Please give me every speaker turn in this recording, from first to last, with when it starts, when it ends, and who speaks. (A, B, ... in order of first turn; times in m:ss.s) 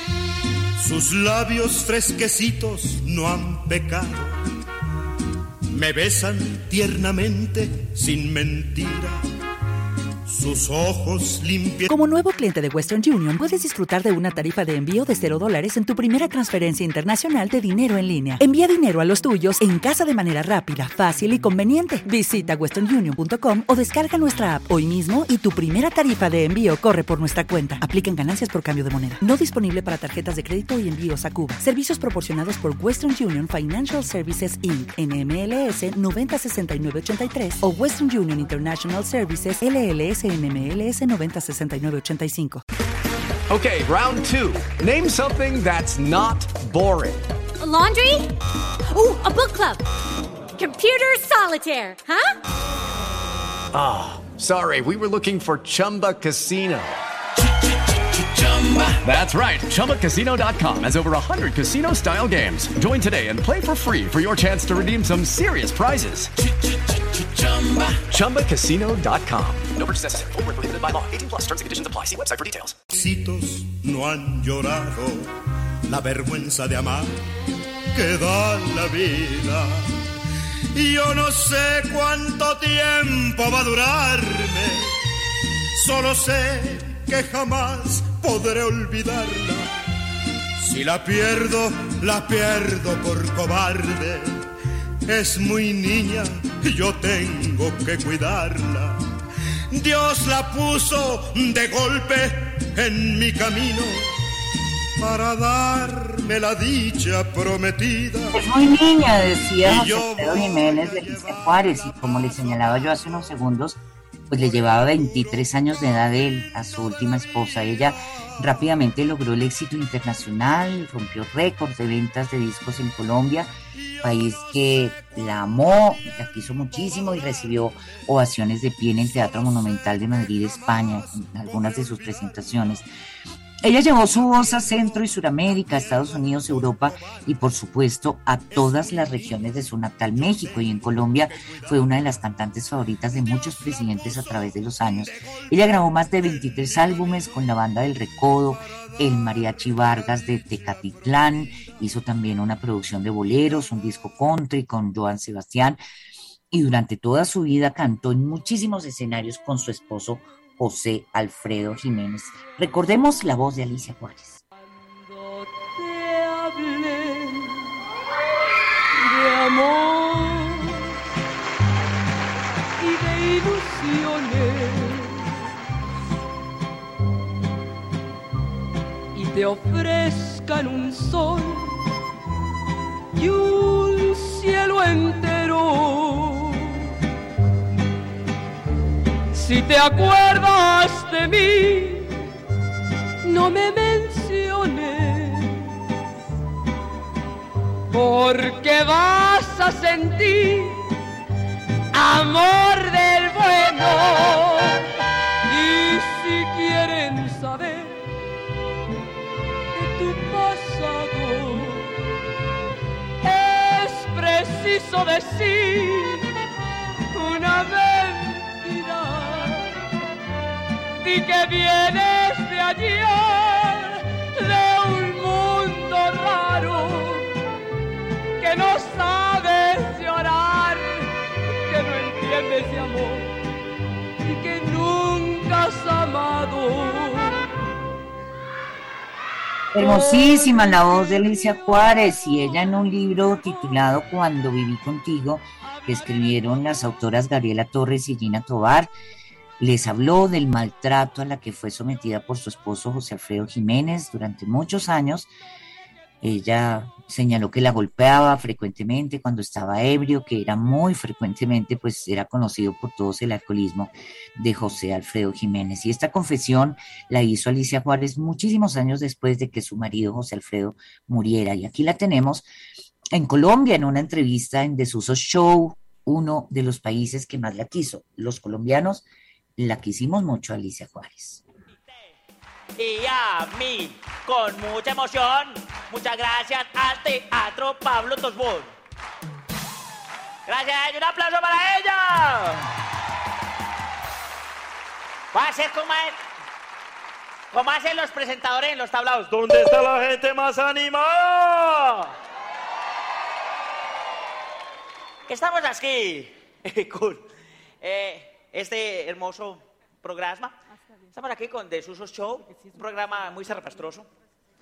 0:00.8-0:04.4 A
0:05.7-0:09.2 A
0:10.2-0:11.9 A
0:11.9-0:42.6 B
0:43.5-0:47.3 C
0:47.6-0:48.3 D
0:48.9-0:49.8 D
0:50.6-0:52.4 D
0:53.7-0:57.0 C
0:58.4-1:06.3 C
1:07.4-1:12.7 C
1:12.9-1:15.3 A
1:15.9-1:17.2 A
1:17.9-1:19.9 A
1:20.7-1:24.9 A
1:25.7-1:29.7 A
1:30.6-1:34.4 A
1:35.0-1:39.0 A
1:39.7-1:44.0 A
1:45.0-1:48.4 A
1:48.3-1:53.8 E
1:49.6-1:51.7 A
1:54.3-2:03.5 E
2:04.0-2:12.9 E
2:13.6-2:35.8 E
2:36.5-2:44.4 E
2:45.0-2:47.7 F
2:48.9-2:51.0 F
2:52.8-2:55.4 F
2:59.1-3:01.8 F
3:03.1-3:06.9 F
3:09.3-3:12.2 F
3:13.2-3:15.7 F
3:17.9-3:20.9 F
3:21.9-3:24.9 F
3:25.5-3:28.1 F
3:29.7-3:32.0 F
3:33.2-3:36.3 F
3:37.1-3:39.8 F
3:41.0-3:47.4 F
3:48.4-3:53.4 F
3:54.2-3:57.5 F
3:59.7-4:08.9 E
4:09.6-4:15.3 E
4:16.2-4:32.5 E
4:33.1-4:39.0 E
4:39.6-4:41.4 E
4:41.7-4:42.1 G
4:42.8-4:48.7 G
4:50.5-4:52.6 G
4:55.3-4:56.2 G
4:57.5-5:02.1 G
5:05.3-5:07.3 G
5:07.8-5:10.6 G
5:11.1-5:14.1 G